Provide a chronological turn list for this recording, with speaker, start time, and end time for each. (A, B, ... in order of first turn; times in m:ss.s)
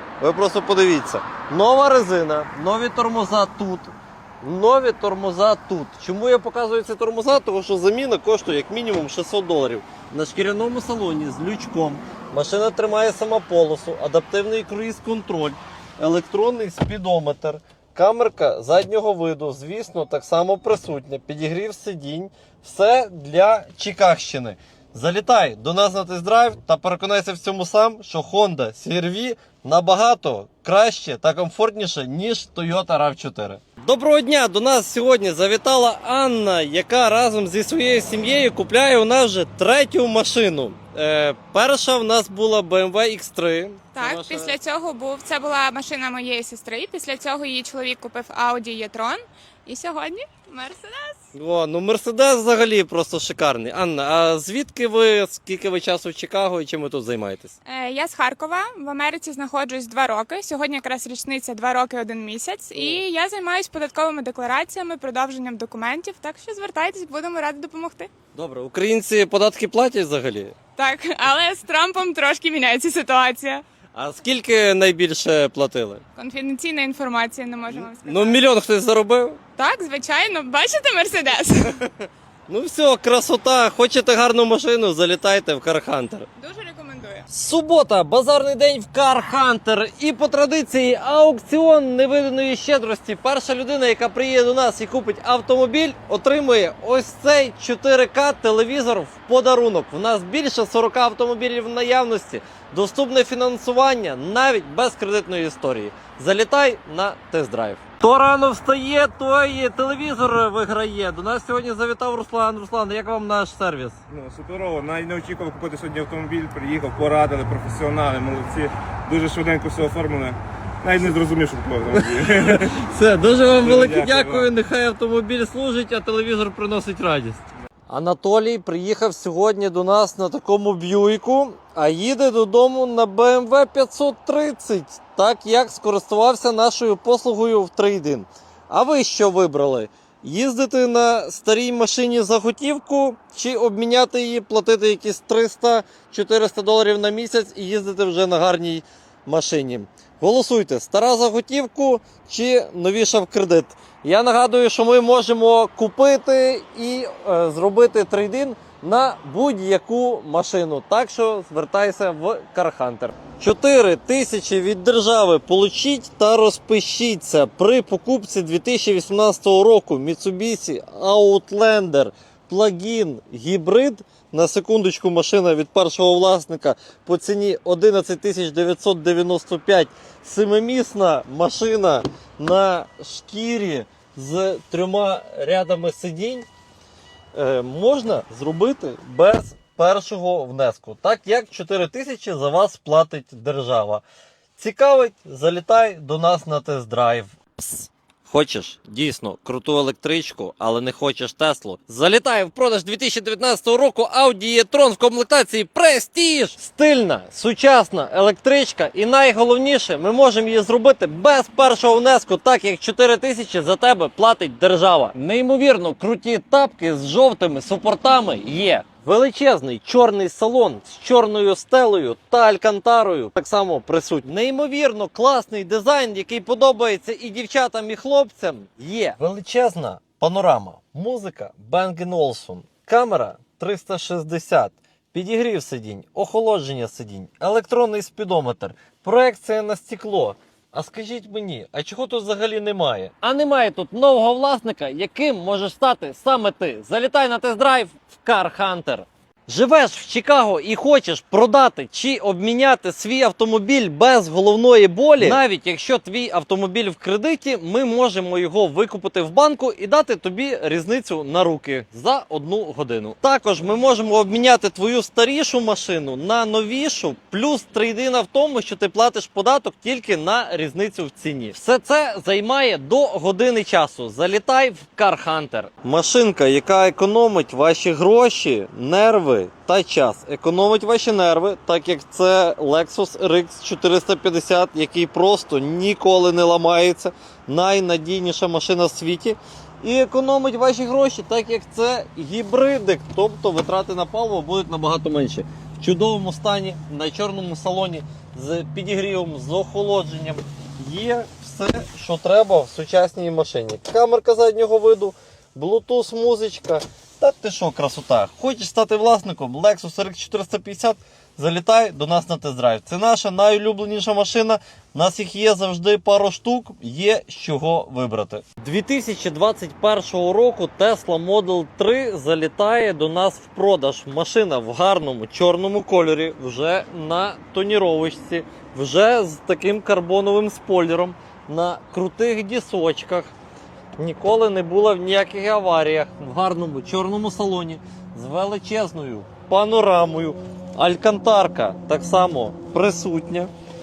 0:00.2-0:44.6 A
0:43.9-0:51.2 B
0:51.3-0:57.5 A
0:57.6-1:08.1 B
1:08.3-1:10.5 A
1:10.8-1:13.6 B
1:14.0-1:16.0 A
1:16.2-1:18.4 B
1:17.7-1:19.4 A
1:19.6-1:21.8 B
1:22.5-1:26.3 A
1:26.4-1:27.3 B
1:27.3-1:54.0 A
1:54.1-2:02.7 C
2:01.9-3:06.4 A
2:03.5-2:04.5 C
3:07.3-3:14.0 A
3:14.6-5:33.3 A
5:34.0-5:43.5 A